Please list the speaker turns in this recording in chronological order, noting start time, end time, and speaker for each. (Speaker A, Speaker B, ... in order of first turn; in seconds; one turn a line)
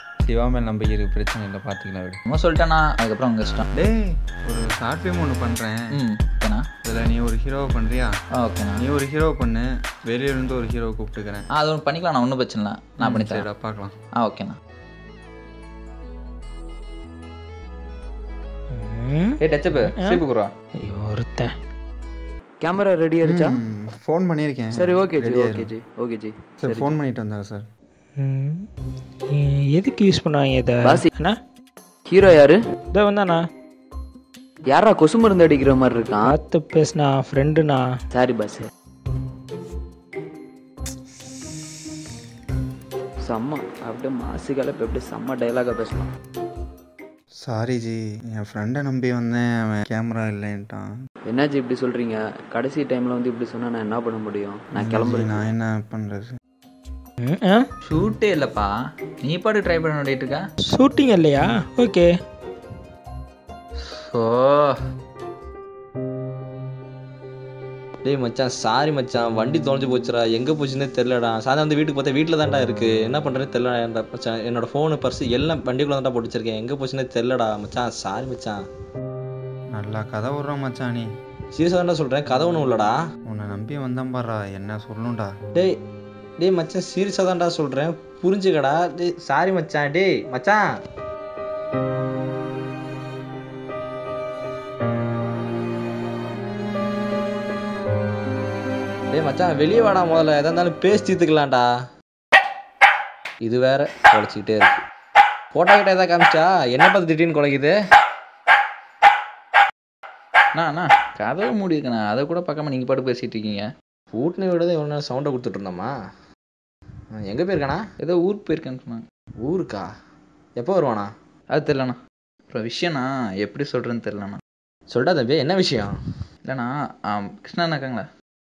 Speaker A: 0.2-2.2
Speaker B: 2.3-3.7
Speaker A: 3.8-5.8
Speaker B: 5.9-6.6
Speaker A: 6.8-8.1
Speaker B: 8.4-8.8
Speaker A: 8.8-11.4
Speaker B: 11.6-13.4
Speaker A: 13.0-13.9
Speaker B: 14.2-14.6
Speaker C: 18.7-20.2
Speaker B: 19.4-20.5
Speaker C: 20.8-21.5
Speaker D: 22.6-23.6
Speaker A: 23.2-25.7
Speaker D: 24.7-26.9
Speaker A: 26.6-27.6
Speaker C: 28.2-28.7
Speaker C: 29.3-31.3
Speaker D: 30.8-31.1
Speaker D: 32.0-32.6
Speaker C: 32.9-33.4
Speaker D: 34.7-36.3
Speaker C: 36.2-37.8
Speaker D: 38.1-38.7
Speaker D: 43.2-46.1
Speaker A: 47.4-50.9
Speaker D: 51.2-55.4
Speaker A: 54.7-56.3
Speaker C: 57.2-57.6
Speaker B: 57.9-58.7
Speaker B: 59.2-60.4
Speaker C: 60.7-62.1
Speaker B: 63.8-64.8
Speaker E: 68.0-78.6
Speaker A: 79.8-81.1
Speaker E: 81.5-83.0
Speaker A: 83.3-85.3
Speaker E: 86.4-90.6
Speaker E: 99.1-101.7
Speaker E: 103.4-104.8
Speaker E: 105.5-107.7
Speaker B: 110.5-113.7
Speaker E: 114.1-115.9
Speaker E: 117.2-117.8
Speaker B: 118.0-119.0
Speaker E: 119.4-119.9
Speaker E: 120.6-121.1
Speaker B: 121.5-122.0
Speaker B: 122.5-124.4
Speaker E: 124.9-125.9
Speaker B: 126.5-128.1